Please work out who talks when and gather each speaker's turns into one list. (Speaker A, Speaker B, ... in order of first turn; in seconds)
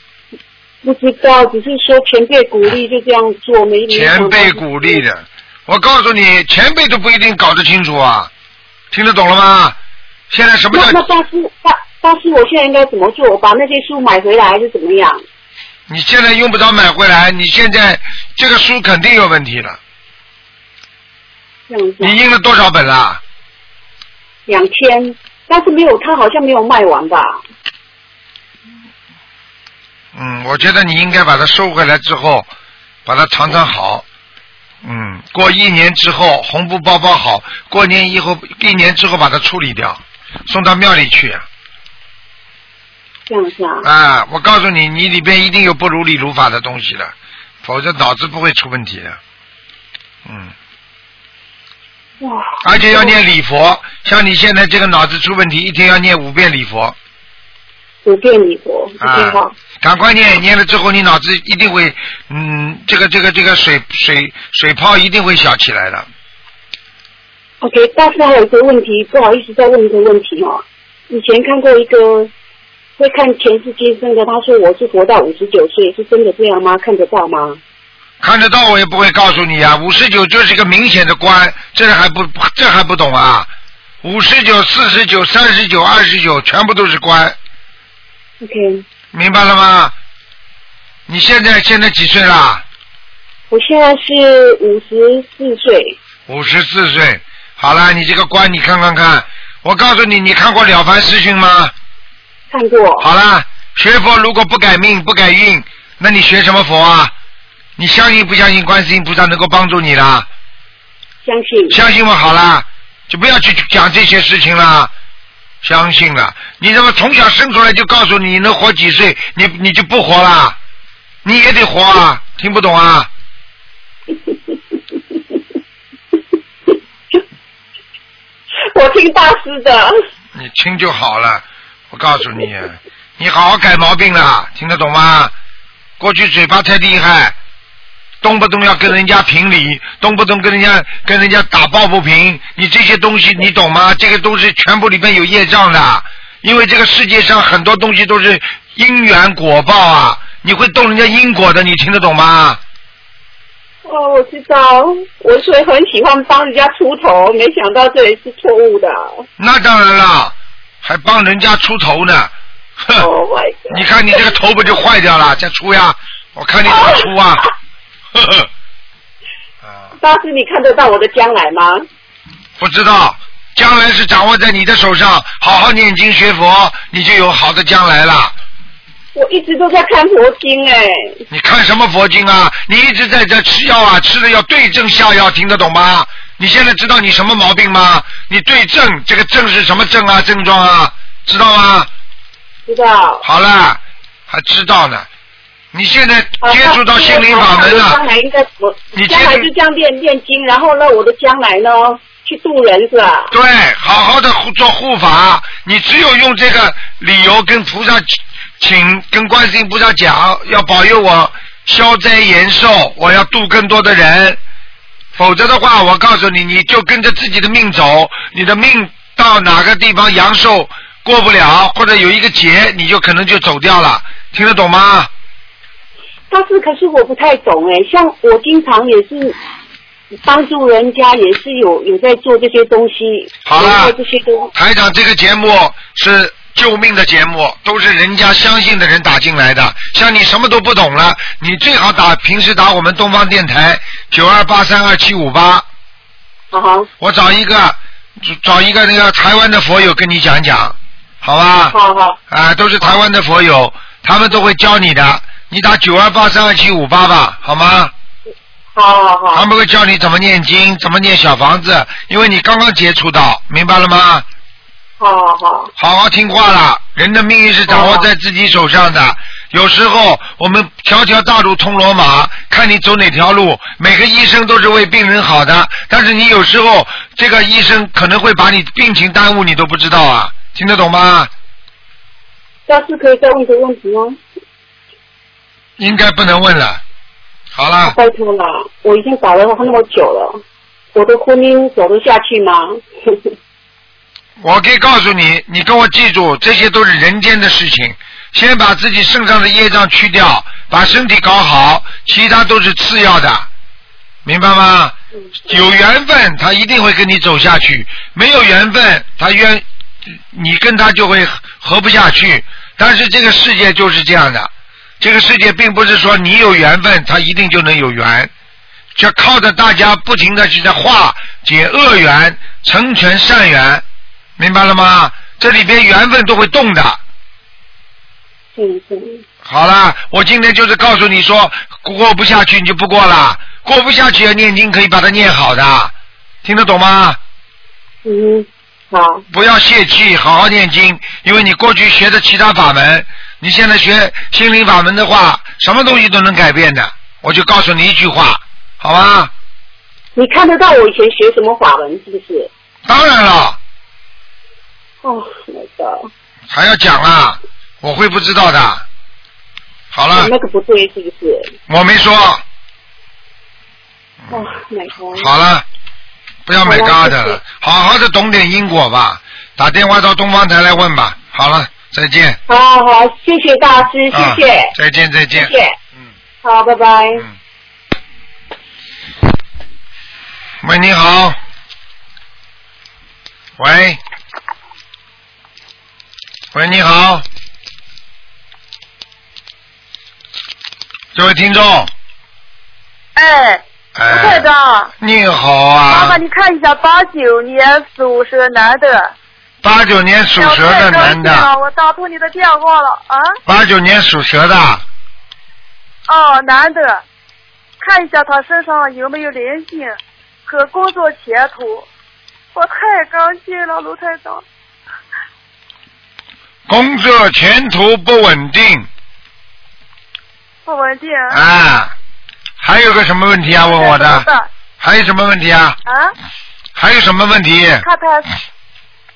Speaker A: 0.8-5.0, 10.7-15.2, 21.7-22.1, 24.5-27.4, 43.3-43.9, 52.2-53.1, 58.0-59.5, 67.6-72.3, 73.0-77.6, 88.4-88.8, 93.5-96.0, 102.5-103.1, 111.2-111.8, 128.6-129.9, 153.8-159.2, 163.0-163.8, 166.7-167.2, 170.0-171.8, 179.2-181.2, 192.7-193.2, 196.4-203.3, 226.3-229.4, 230.2-234.5, 246.5-246.9, 251.7-252.2, 258.8-259.5, 265.0-265.7, 267.7-268.1, 282.7-284.2, 287.8-290.4, 290.9-293.3, 328.6-329.2, 338.1-339.2, 350.2-352.5, 355.0-356.1, 360.1-361.5, 364.3-365.3, 366.6-367.4, 372.5-374.7, 375.3-375.8, 376.4-377.2
Speaker B: 3.9-8.3, 8.9-9.8, 10.3-11.0, 15.9-19.8, 22.0-23.2, 30.1-32.5, 33.1-34.0, 34.8-41.5, 43.8-47.1, 47.6-49.2, 50.3-50.5, 52.6-57.0, 59.0-66.1, 78.2-83.5, 84.0-87.4, 89.1-89.9, 91.1-92.6, 96.3-101.7, 103.0-107.1, 107.8-110.3, 111.7-114.9, 115.6-120.6, 121.2-123.1, 130.3-135.3, 136.0-137.4, 138.2-152.6, 159.4-163.1, 163.7-167.5, 168.1-168.5, 172.6-178.3, 181.3-191.9, 193.2-195.1, 195.7-198.0, 198.9-199.5, 203.3-214.4, 215.2-225.1, 233.5-234.0, 234.6-245.7, 247.0-251.8, 252.3-257.9, 259.3-264.3, 265.8-281.3, 285.8-286.8, 287.6-288.0, 294.4-303.5, 304.2-318.3, 319.0-323.8, 324.4-327.0, 329.4-335.9, 336.4-337.2, 339.3-349.3, 352.9-353.6, 356.5-358.9, 359.9-360.3, 361.7-362.4, 364.2-364.5, 365.1-365.6, 366.5-372.4, 374.1-375.5, 380.6-381.4, 383.6-384.0, 386.5-387.2, 391.1-391.9, 394.0-394.5, 395.0-396.2, 399.6-401.5, 403.5-404.8, 416.7-418.9, 421.3-421.9, 422.6-424.3, 424.8-425.8, 426.8-427.9
Speaker C: 393.1-394.9, 395.9-399.1, 400.4-403.4, 406.1-407.0, 407.8-411.9, 412.5-414.4, 420.6-421.4, 423.5-424.5, 425.9-426.1, 427.8-428.4